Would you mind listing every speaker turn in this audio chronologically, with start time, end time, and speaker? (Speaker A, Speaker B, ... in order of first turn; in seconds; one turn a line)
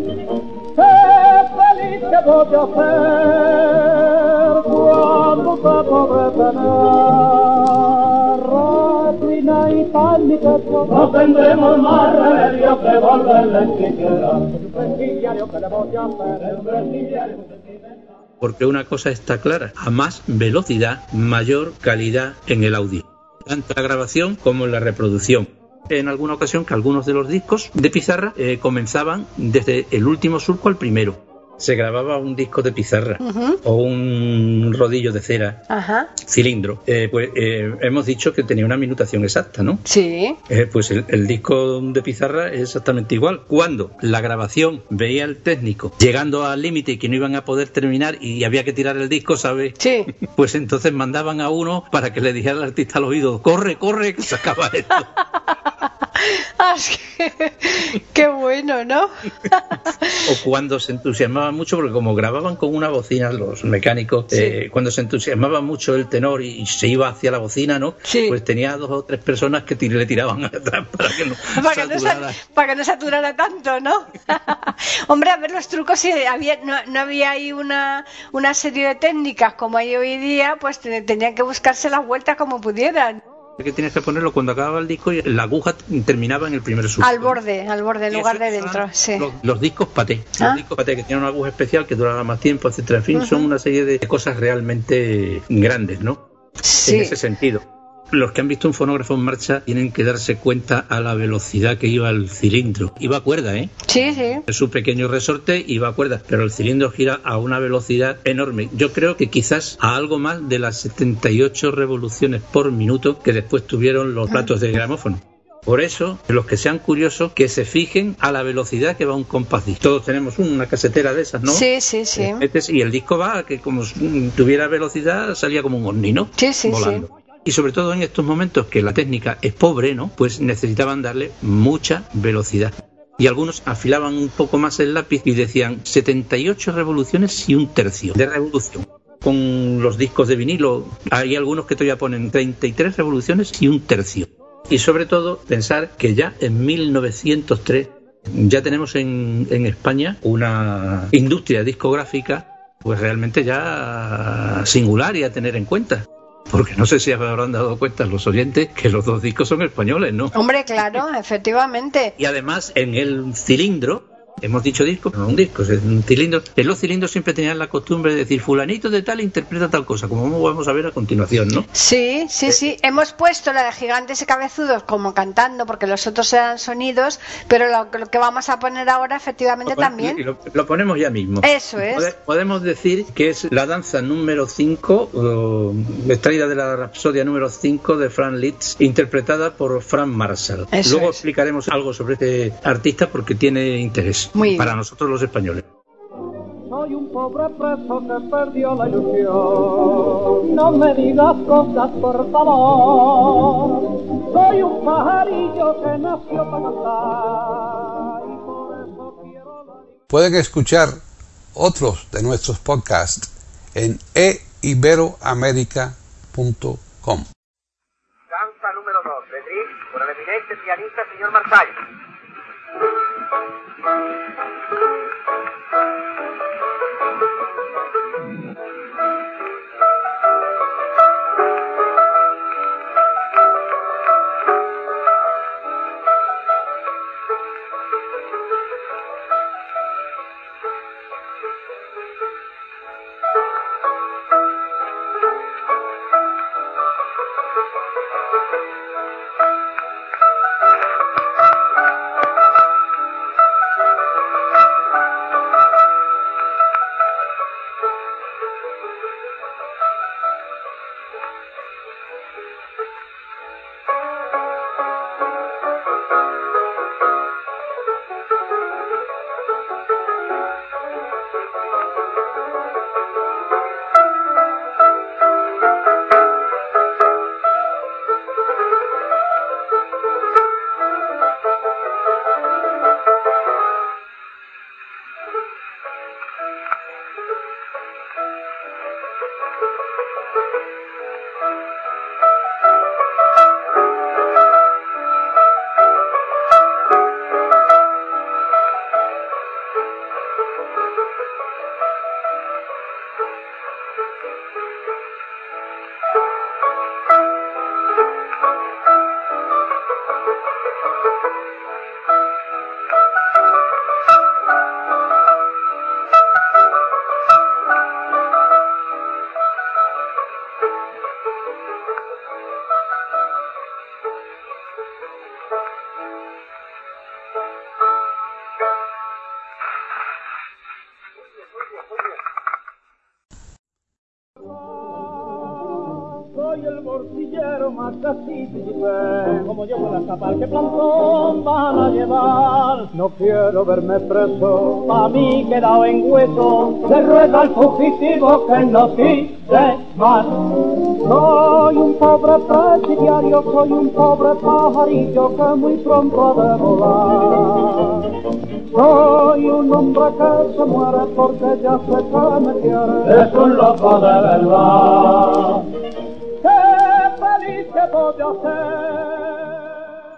Speaker A: 0.7-17.6
Speaker B: 18.4-35.6
Speaker C: 33.2-33.6
Speaker C: 35.7-36.1
Speaker B: 36.2-39.8
Speaker C: 39.9-40.4
Speaker B: 40.5-55.1
Speaker C: 49.8-50.1
Speaker C: 56.2-60.3
Speaker B: 60.2-72.4
Speaker C: 68.0-68.4
Speaker C: 71.5-83.2
Speaker B: 83.6-87.4
Speaker C: 87.0-89.2
Speaker B: 88.1-96.2
Speaker C: 93.1-93.5
Speaker C: 96.6-97.1
Speaker B: 96.8-103.8
Speaker C: 103.9-104.4
Speaker B: 104.5-121.6
Speaker C: 121.5-122.4
Speaker B: 122.2-160.3
Speaker C: 126.4-127.0
Speaker C: 160.3-162.1
Speaker B: 162.2-171.7
Speaker C: 171.7-180.2
Speaker B: 179.7-195.6
Speaker C: 181.4-182.1
Speaker C: 190.7-191.2
Speaker C: 194.3-194.7
Speaker A: 196.7-209.9
Speaker D: 210.1-211.0
Speaker D: 211.5-217.3
Speaker E: 218.3-221.8
Speaker A: 335.2-365.6
Speaker A: 366.4-369.6